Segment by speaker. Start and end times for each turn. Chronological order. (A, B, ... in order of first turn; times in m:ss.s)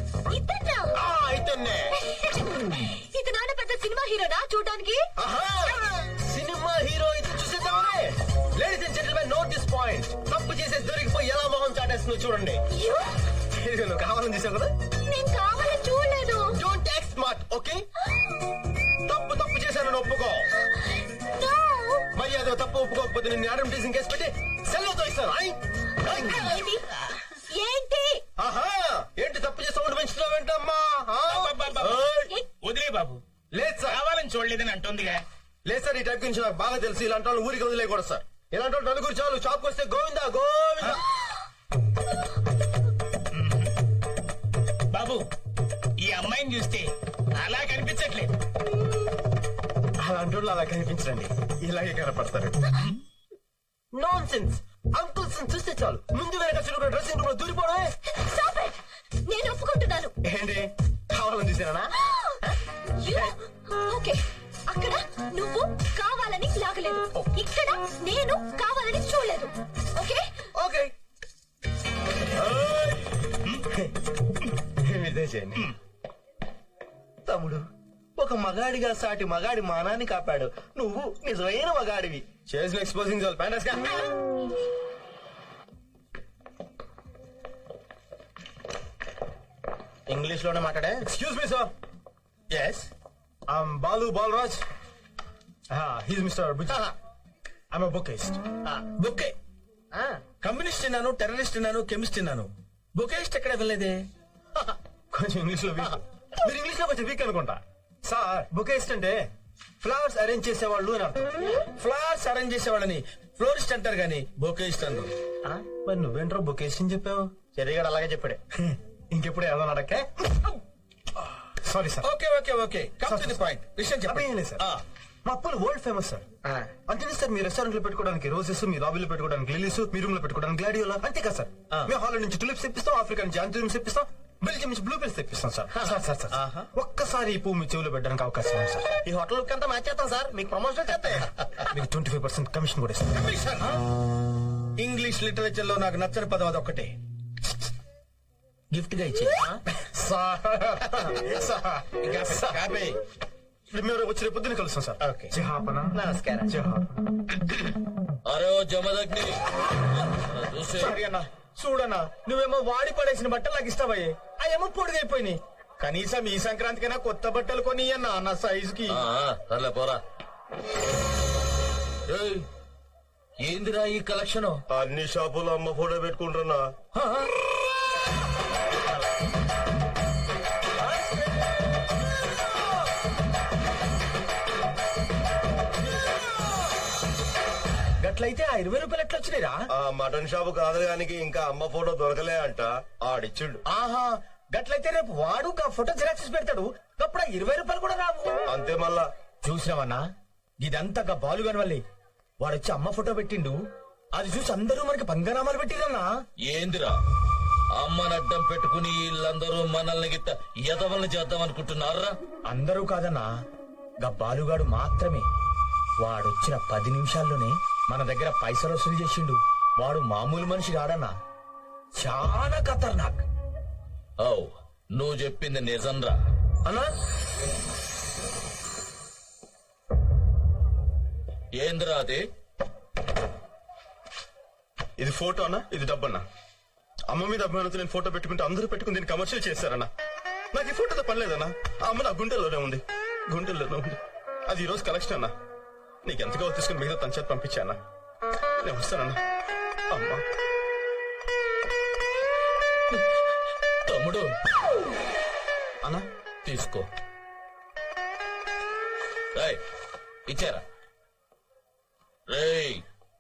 0:00.3-0:01.0 A
0:01.0-0:01.9 B
0:02.0-0:05.0 A
0:05.2-0:12.6 B
0:12.7-0:13.1 A
0:13.6-0:14.7 B
0:15.1-0:16.5 A
0:16.5-0:17.9 B
0:19.0-0:20.5 B
0:21.3-0:22.1 A
0:22.1-0:26.6 B
0:26.1-0:26.9 A
0:27.5-0:28.2 A
0:28.4-0:32.3 B
0:31.3-0:31.9 C
0:32.6-0:33.2 C
0:33.5-0:34.0 B
0:33.9-0:35.2 C
0:35.6-0:41.0 B
0:43.3-0:43.7 C
0:44.9-0:45.3 C
0:46.0-0:48.3 C
0:50.0-0:52.6 B
0:53.9-0:57.9 B
0:58.1-1:00.1 A
1:00.2-1:01.9 B
1:02.0-1:02.4 A
1:03.0-1:10.2 A
1:10.6-1:10.9 B
1:12.4-1:13.9 B
1:14.8-1:15.8 B
1:22.4-1:24.0 B
1:30.1-1:31.0 D
1:31.0-1:31.7 B
1:32.5-1:32.9 D
1:33.5-1:34.6 B
1:35.7-1:36.8 B
1:37.7-1:38.2 E
1:38.0-1:38.4 B
1:39.0-1:39.3 E
1:39.9-1:40.2 D
1:40.4-1:44.0 E
1:45.1-1:49.2 B
1:49.8-1:51.3 B
1:51.7-1:54.2 E
1:55.7-1:57.3 B
1:57.6-1:58.4 D
1:58.6-2:00.5 B
2:01.5-2:02.1 B
2:03.0-2:04.7 B
2:05.2-2:06.2 B
2:06.9-2:18.9 B
2:19.1-2:21.6 D
2:21.7-2:23.3 B
2:23.2-2:23.6 D
2:24.8-2:26.9 E
2:28.9-2:29.2 E
2:29.8-2:31.2 B
2:32.2-2:32.7 B
2:33.7-2:36.9 B
2:38.2-2:39.4 F
2:39.9-2:41.0 F
2:40.8-2:49.0 E
2:48.9-2:50.0 F
2:52.1-2:52.5 F
2:53.4-2:54.6 F
2:54.8-2:56.6 B
2:57.0-2:57.3 E
3:08.0-3:09.7 E
3:09.8-3:13.6 B
3:13.6-3:18.4 E
3:18.5-3:19.0 B
3:19.4-3:20.1 E
3:20.6-3:21.8 E
3:22.4-3:23.6 E
3:24.1-3:26.1 E
3:26.5-3:26.9 F
3:27.8-3:32.1 F
3:32.5-3:33.3 E
3:34.0-3:35.2 E
3:36.0-3:41.1 E
3:42.0-3:43.2 E
3:44.2-3:46.2 F
3:51.6-3:52.2 F
3:55.0-3:56.2 B
3:57.1-3:59.9 B
4:00.5-4:05.3 B
4:06.0-4:07.8 B
4:08.6-4:09.2 B
4:09.9-4:10.2 B
4:13.8-4:14.3 F
4:16.4-4:16.8 F
4:20.3-4:20.6 F
4:22.3-4:22.8 F